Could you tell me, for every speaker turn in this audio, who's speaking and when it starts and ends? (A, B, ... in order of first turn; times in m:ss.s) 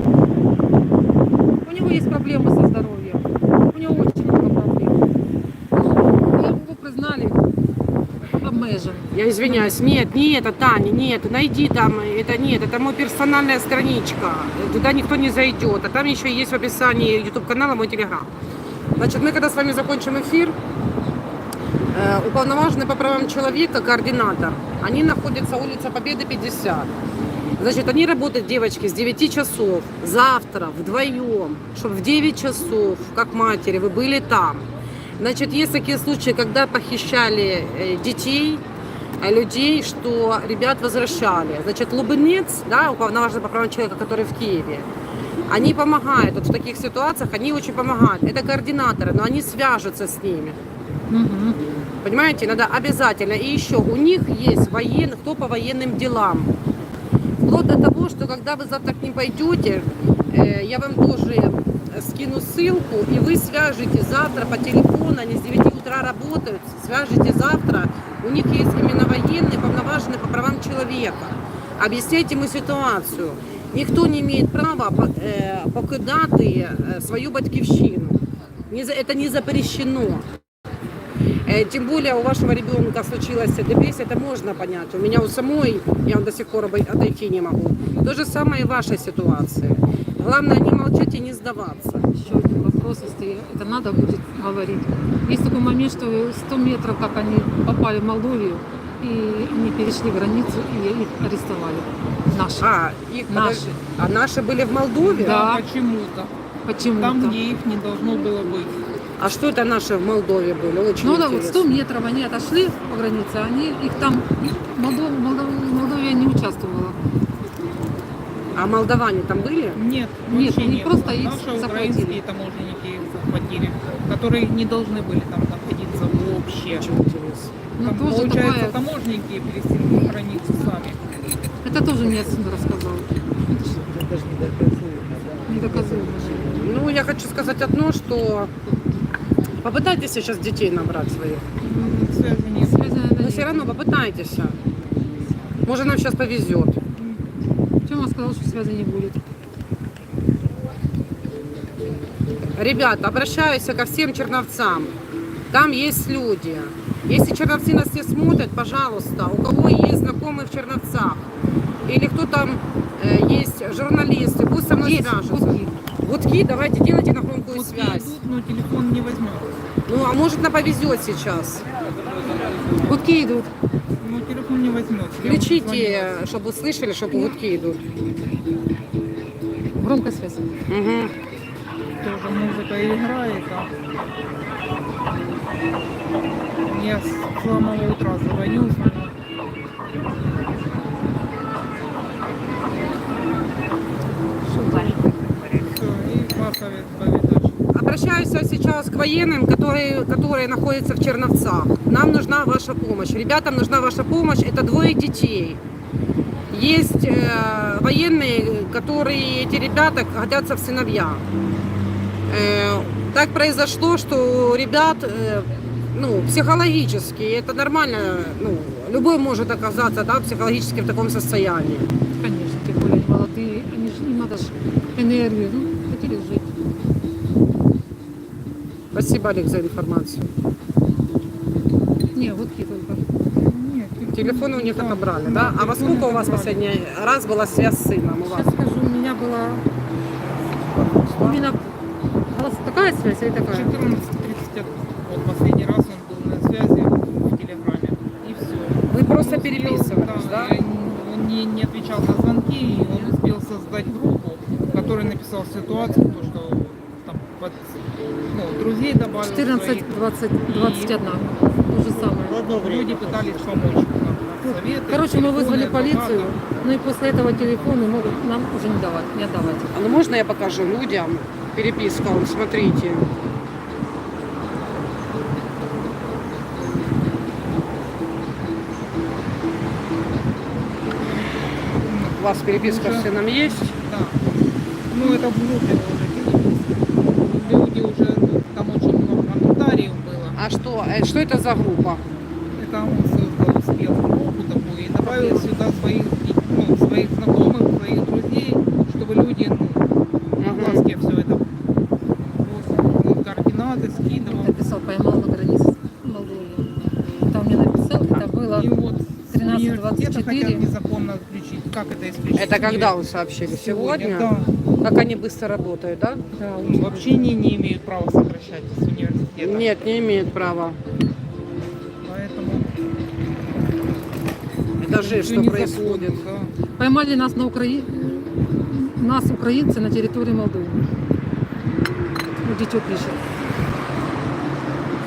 0:01.6-0:05.1 A
0:05.8-0:07.4 A
0:08.4-0:09.8 A
0:09.1-0:18.3 B
0:19.0-0:20.6 B
0:21.9-0:26.9 B
0:27.6-0:38.6 B
0:39.2-0:44.9 B
0:45.5-0:50.6 B
0:51.1-0:51.6 A
0:52.0-0:56.5 B
0:57.4-1:20.3 B
1:21.5-1:32.1 B
1:32.1-1:42.8 A
1:42.6-1:45.4 B
1:43.3-1:43.7 A
1:45.0-1:46.3 C
1:45.2-1:45.6 A
1:46.6-1:47.4 A
1:46.9-1:48.8 C
1:49.2-1:51.8 B
1:51.0-1:57.0 A
1:58.5-1:59.8 B
1:59.8-2:06.9 C
2:00.3-2:02.2 A
2:06.8-2:07.6 B
2:07.8-2:08.8 A
2:07.8-2:11.0 C
2:11.6-2:13.8 A
2:13.8-2:16.6 D
2:15.5-2:16.6 A
2:16.6-2:18.5 B
2:19.6-2:21.5 B
2:21.6-2:23.0 C
2:22.6-2:23.8 A
2:23.2-2:24.6 B
2:25.6-2:26.8 B
2:27.0-2:27.2 C
2:27.8-2:29.2 A
2:32.6-2:34.9 B
2:35.5-2:41.3 B
2:41.9-2:48.2 B
2:44.7-2:45.8 A
2:47.4-2:49.6 C
2:49.9-2:51.7 B
2:52.8-2:53.5 A
2:54.0-2:56.2 C
2:55.2-2:57.9 B
2:57.1-2:57.4 A
2:59.8-3:00.5 A
3:00.7-3:01.1 B
3:02.0-3:03.7 C
3:06.6-3:09.1 C
3:14.4-3:15.6 A
3:15.6-3:17.6 C
3:17.7-3:25.6 B
3:26.5-3:31.2 B
3:32.3-3:41.9 B
3:42.1-3:46.5 A
3:48.9-3:50.3 B
3:52.1-3:53.0 A
3:53.3-3:56.7 C
3:54.1-3:58.5 B
3:58.3-3:59.6 A
4:00.6-4:01.4 B
4:01.1-4:01.7 A
4:02.3-4:03.9 A
4:03.5-4:17.8 C
4:08.9-4:10.6 B
4:18.3-4:19.9 C
4:19.2-4:22.6 A
4:20.5-4:21.0 C
4:22.0-4:23.5 D
4:22.4-4:26.4 C
4:24.9-4:29.7 A
4:27.1-4:28.0 C
4:29.7-4:33.1 B
4:41.4-4:44.2 C
4:42.2-4:43.8 B
4:44.9-4:50.4 C
4:50.4-4:52.0 B
4:52.6-4:59.9 C
4:55.0-4:55.5 A
5:00.4-5:00.8 B
5:00.4-5:01.5 C
5:02.2-5:04.6 C
5:04.2-5:08.7 A
5:08.5-5:14.5 C
5:09.3-5:10.7 A
5:12.4-5:16.2 B
5:16.3-5:17.3 A
5:16.6-5:19.8 C
5:19.4-5:20.8 B
5:22.0-5:22.7 C
5:24.8-5:26.2 B
5:24.9-5:26.5 C
5:26.8-5:30.9 A
5:32.4-5:33.2 A